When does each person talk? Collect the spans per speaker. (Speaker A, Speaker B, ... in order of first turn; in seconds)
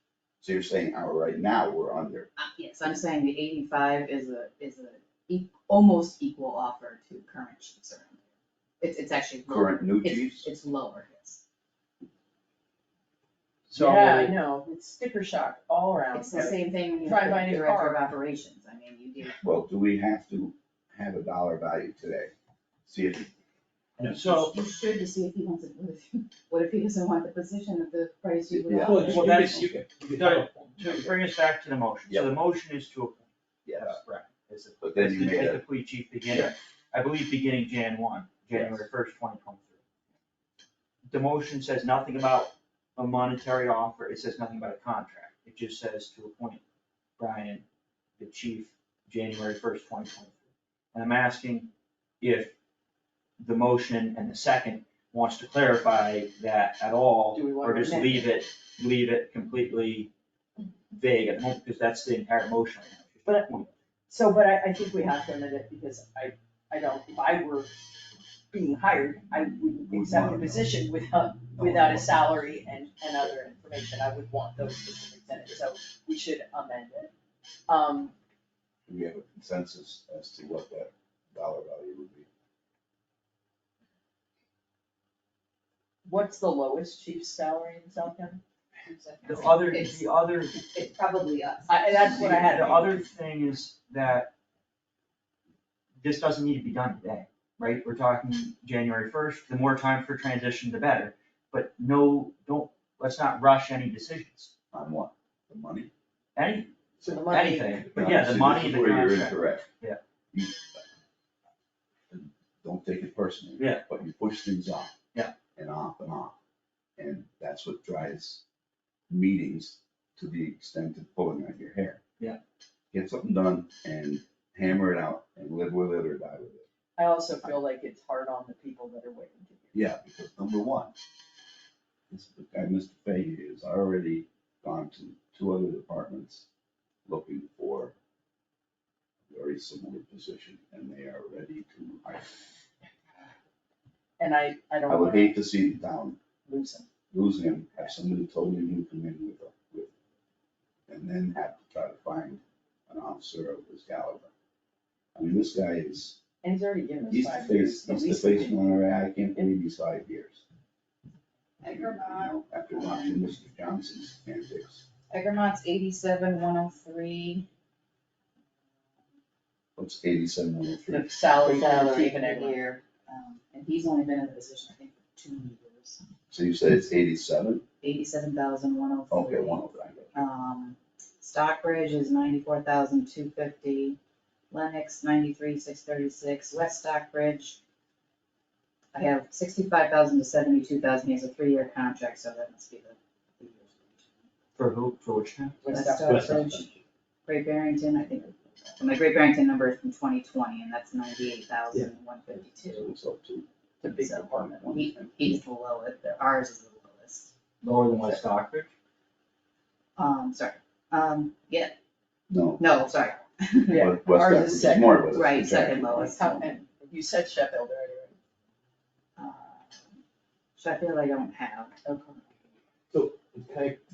Speaker A: 0.4-2.3, 9.5-10.5, 19.4-22.3, 22.9-23.3, 28.5-29.7, 33.6-34.0, 34.8-35.6, 38.5-38.9, 69.8-70.8, 71.5-72.4, 78.9-82.3, 104.7-105.9, 107.9-109.7, 110.3-110.8, 112.1-114.9, 115.5-116.3, 117.0-118.4, 119.1-122.0, 122.9-126.7, 129.7-130.9, 132.1-136.5, 137.1-137.9, 139.3-142.4, 144.9-146.2, 147.1-149.9, 150.9-154.3, 155.2-156.2, 157.1-160.4, 161.6-164.8, 169.8-171.1, 176.3-177.6, 179.1-180.2, 202.7-203.5, 204.4-205.4, 212.3-212.6, 213.7-216.4
Speaker B: 2.4-8.2, 8.8-11.4, 16.1-19.4, 24.0-29.2, 88.8-91.9, 161.6-163.1, 165.1-167.5, 171.4-176.0, 177.8-179.6, 180.1-184.0, 184.5-187.6, 188.9-194.1, 195.7-196.7, 197.3-202.9, 203.9-207.3, 210.0-211.7, 212.6-213.8, 215.1-216.3, 219.2-219.8, 220.6-222.2
Speaker C: 13.7-14.4, 24.1-24.6, 29.0-39.8, 41.1-46.6, 47.2-47.6, 48.2-50.4, 50.9-52.5, 53.4-60.1, 60.9-63.7, 89.2-90.6, 92.0-94.3, 96.0-104.5, 106.4-110.0, 113.6-113.8, 194.6-195.6, 207.6-208.7
Speaker D: 13.7-18.1, 57.3-58.4, 63.3-67.7, 68.5-77.1, 77.7-78.1, 86.0-88.4, 91.7-93.0, 107.1-107.8, 127.0-129.8, 144.2-145.4, 146.4-146.9, 156.4-158.6, 170.9-172.7, 195.6-196.5, 203.8-204.7, 213.7-215.1, 216.0-218.2
Speaker E: 24.0-24.4, 28.9-31.1, 196.1-196.7, 222.9-223.8